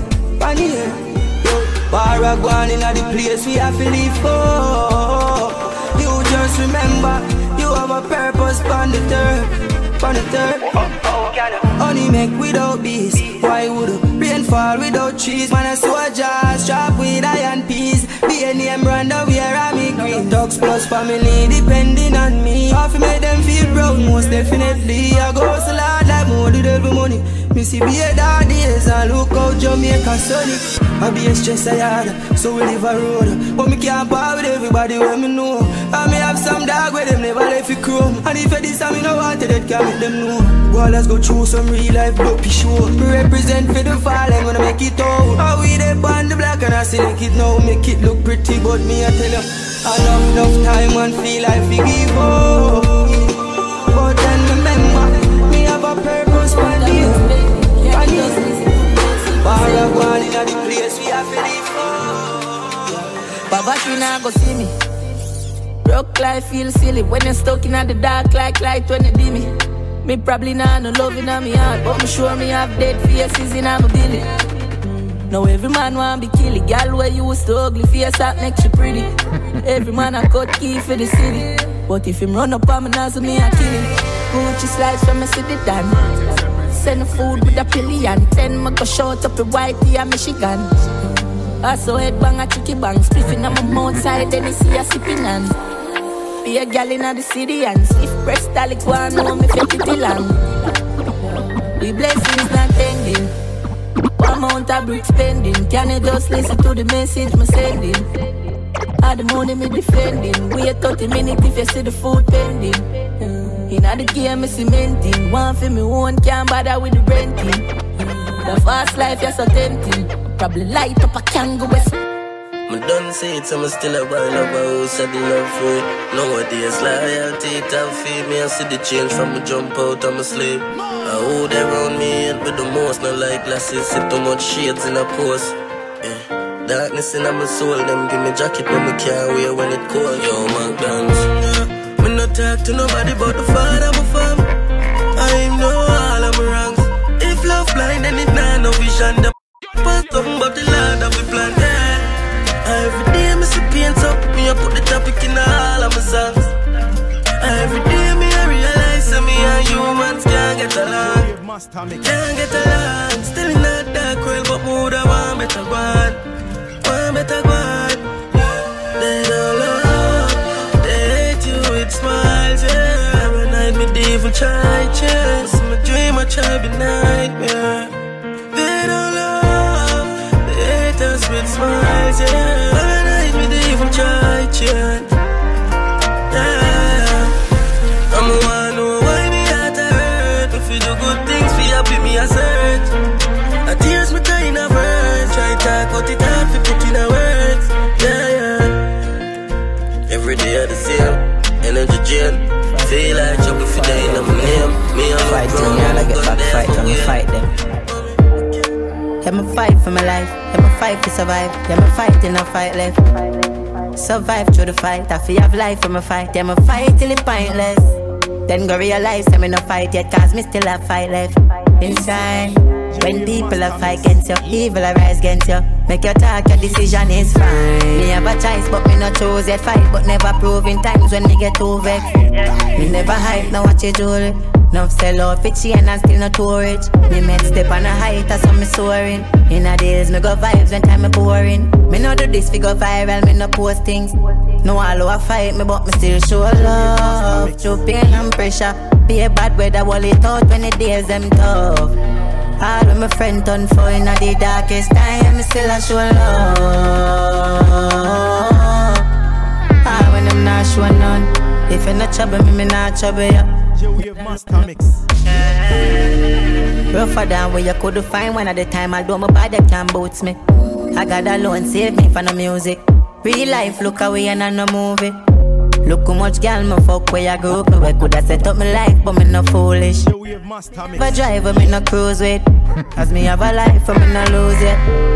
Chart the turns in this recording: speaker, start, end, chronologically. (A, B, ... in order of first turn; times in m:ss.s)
0:00.4-0:53.2 A
0:53.9-0:57.2 A
0:56.3-1:00.1 B
0:57.9-0:58.4 A
0:59.4-1:02.1 A
1:03.5-1:04.7 B
1:05.8-1:09.5 B
1:10.0-1:14.3 B
1:15.3-1:19.1 B
1:19.6-1:30.7 B
1:31.6-1:35.5 B
1:36.4-1:40.4 B
1:41.8-1:43.3 B
1:44.2-1:48.1 B
1:49.0-1:52.9 B
1:53.7-1:57.7 B
1:58.4-2:01.9 B
2:02.7-2:24.5 C
2:25.1-2:36.5 C
2:37.4-2:41.3 C
2:40.9-2:42.3 D
2:42.0-2:46.2 C
2:46.8-2:57.9 C
2:58.5-3:05.1 C
3:06.3-3:07.3 C
3:08.1-3:12.9 C
3:13.6-3:18.9 C
3:20.1-3:27.2 C
3:24.0-3:24.5 E
3:25.2-3:27.5 E
3:27.9-3:28.6 C
3:29.2-3:52.2 E
3:42.9-3:44.6 D
3:52.7-4:12.0 E
4:06.5-4:07.7 D
4:12.6-4:19.1 E
4:19.8-4:23.5 E
4:23.7-4:25.0 D
4:25.3-4:26.1 E
4:26.9-4:30.4 E
4:30.9-4:35.2 E
4:35.8-4:40.0 E
4:40.0-4:41.4 D
4:41.0-4:42.4 E
4:43.0-4:44.8 E